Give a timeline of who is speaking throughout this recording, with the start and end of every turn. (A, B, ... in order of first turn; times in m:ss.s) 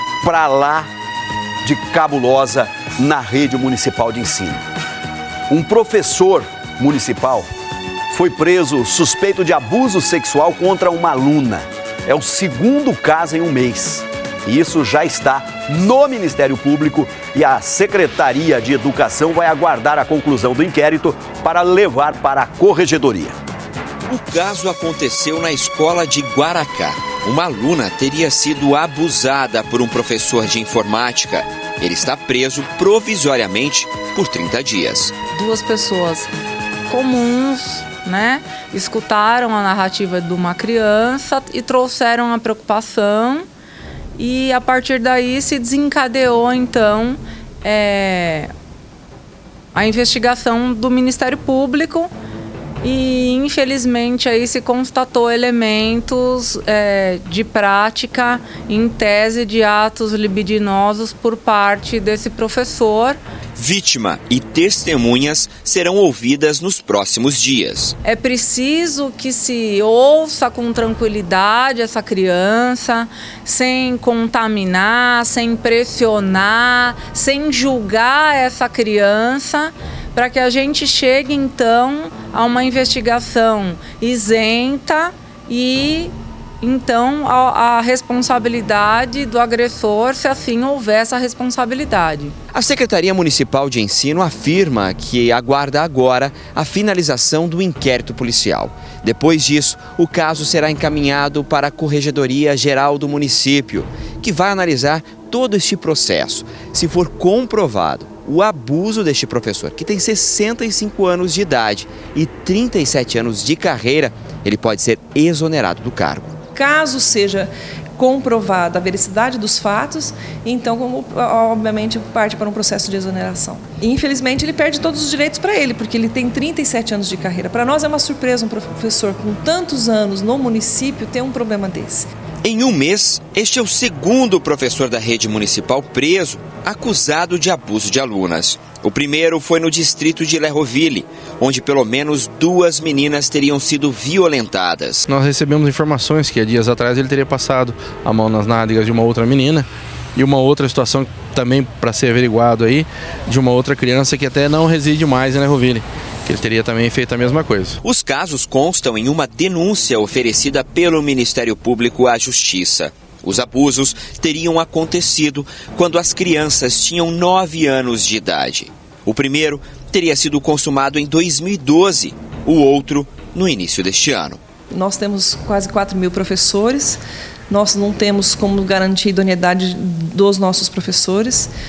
0:00.2-0:00.9 A
0:01.6-0:04.6 A
0:05.5-0:07.5 A
0:08.1-0:23.4 A
0:24.1-0:35.2 B
0:35.3-0:36.3 C
0:36.9-0:43.5 C
0:44.2-0:48.5 C
0:49.7-0:52.1 C
0:52.8-1:03.2 C
1:03.6-1:08.0 B
1:08.0-1:32.3 C
1:32.5-1:56.4 B
1:56.6-2:12.1 D
2:12.4-2:25.1 B
2:25.1-2:37.8 E
2:37.8-2:54.4 B
2:54.7-3:01.5 D